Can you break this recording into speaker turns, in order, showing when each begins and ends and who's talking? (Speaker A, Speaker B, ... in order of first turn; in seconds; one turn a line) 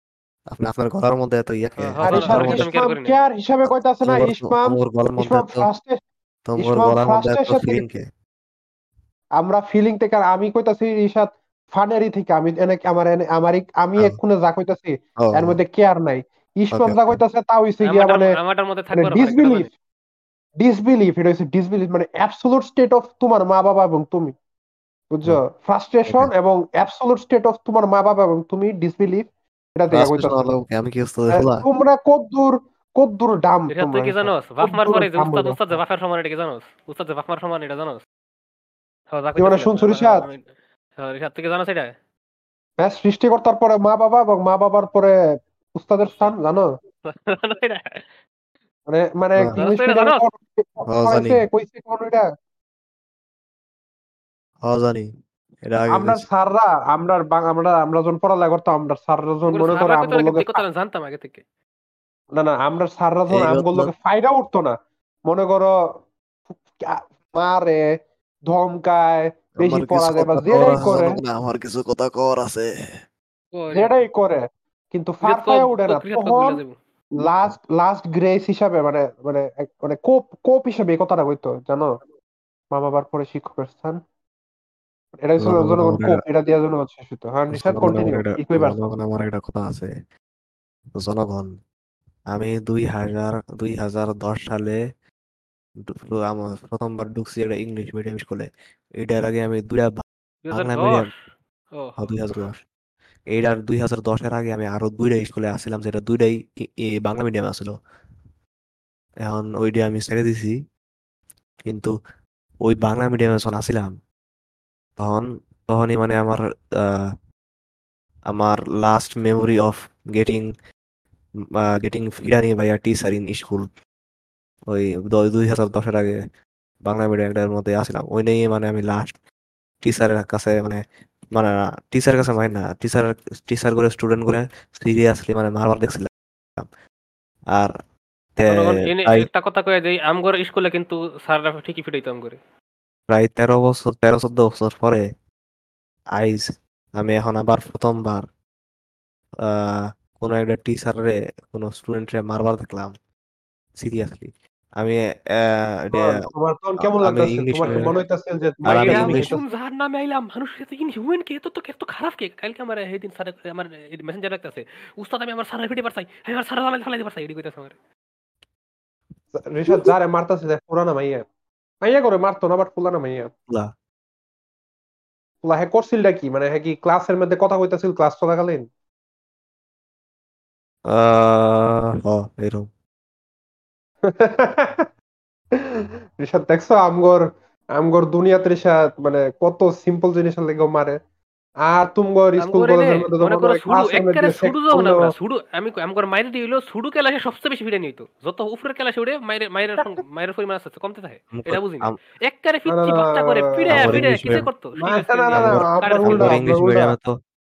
Speaker A: 0.5-2.7
Speaker B: 1.8-3.2
Speaker C: 2.0-6.0
Speaker A: 3.7-5.7
Speaker A: 6.5-8.1
Speaker C: 6.6-7.8
Speaker C: 9.4-18.4
Speaker A: 15.2-15.6
Speaker A: 16.7-17.2
Speaker B: 17.8-19.7
Speaker C: 18.9-19.7
Speaker C: 20.6-24.3
Speaker C: 25.1-30.5
Speaker A: 29.9-31.6
Speaker C: 31.3-35.8
Speaker B: 33.7-38.0
Speaker B: 39.1-40.4
Speaker C: 39.4-40.3
Speaker B: 41.0-41.9
Speaker C: 42.8-45.2
Speaker C: 45.7-46.7
Speaker B: 47.0-48.1
Speaker C: 48.9-52.3
Speaker B: 49.6-50.2
Speaker A: 50.9-51.4
Speaker A: 54.6-55.1
Speaker A: 55.6-56.2
Speaker C: 55.9-60.6
Speaker B: 59.5-61.4
Speaker C: 62.3-64.8
Speaker A: 63.3-63.9
Speaker C: 65.3-65.7
Speaker C: 66.5-67.8
Speaker C: 68.5-71.2
Speaker A: 69.6-72.7
Speaker B: 73.5-73.9
Speaker C: 73.7-76.6
Speaker B: 75.2-76.8
Speaker C: 77.2-82.0
Speaker C: 82.7-84.0
Speaker C: 85.2-88.8
Speaker A: 85.4-86.2
Speaker A: 87.5-89.9
Speaker A: 91.0-91.5
Speaker A: 92.3-94.8
Speaker A: 95.8-98.5
Speaker A: 99.0-101.1
Speaker B: 100.5-101.2
Speaker B: 101.8-102.2
Speaker A: 102.0-102.6
Speaker A: 103.3-107.7
Speaker A: 109.2-110.5
Speaker A: 111.7-111.9
Speaker A: 112.6-113.9
Speaker A: 115.0-117.0
Speaker A: 118.3-120.5
Speaker A: 121.6-123.7
Speaker A: 124.7-126.2
Speaker A: 126.8-129.2
Speaker A: 129.8-130.8
Speaker A: 131.3-136.7
Speaker A: 138.4-139.3
Speaker B: 138.5-142.4
Speaker A: 143.1-145.0
Speaker A: 146.2-146.4
Speaker A: 147.0-148.3
Speaker A: 149.5-152.9
Speaker A: 153.8-156.2
Speaker C: 155.9-159.4
Speaker A: 156.8-157.9
Speaker B: 157.6-157.9
Speaker A: 158.7-159.3
Speaker B: 158.8-167.8
Speaker C: 169.3-171.2
Speaker C: 171.8-173.3
Speaker C: 175.4-178.7
Speaker A: 180.9-182.7
Speaker C: 184.0-184.9
Speaker C: 185.5-191.0
Speaker C: 191.7-195.1
Speaker B: 192.4-206.4
Speaker A: 201.3-202.0
Speaker C: 202.7-204.0
Speaker A: 203.7-204.5
Speaker C: 204.8-206.9
Speaker A: 205.3-207.1